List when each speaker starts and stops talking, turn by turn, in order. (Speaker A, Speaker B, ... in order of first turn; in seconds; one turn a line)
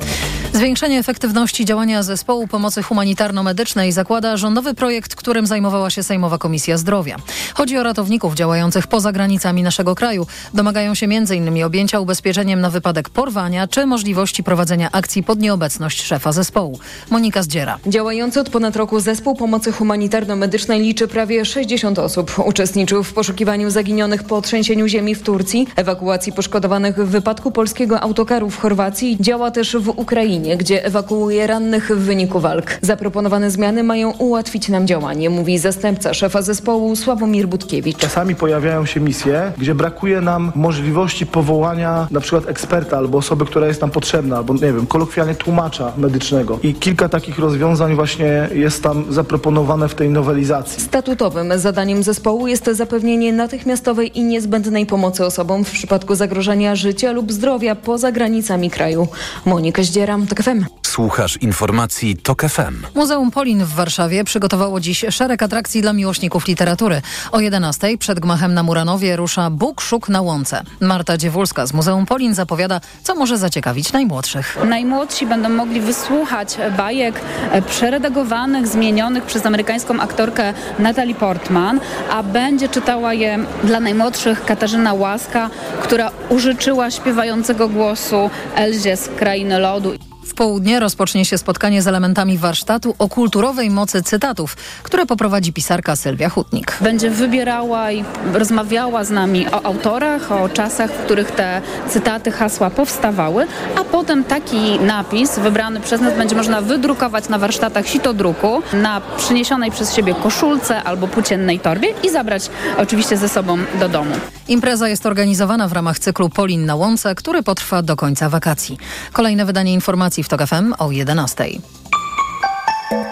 Speaker A: 0.5-17.8
Speaker B: 17.8-38.1
Speaker C: 38.0-50.8
Speaker B: 50.8-60.7
Speaker D: 60.8-62.9
Speaker A: 62.9-74.6
Speaker E: 74.6-90.0
Speaker A: 90.3-96.8
Speaker E: 96.8-114.2
Speaker A: 114.5-121.6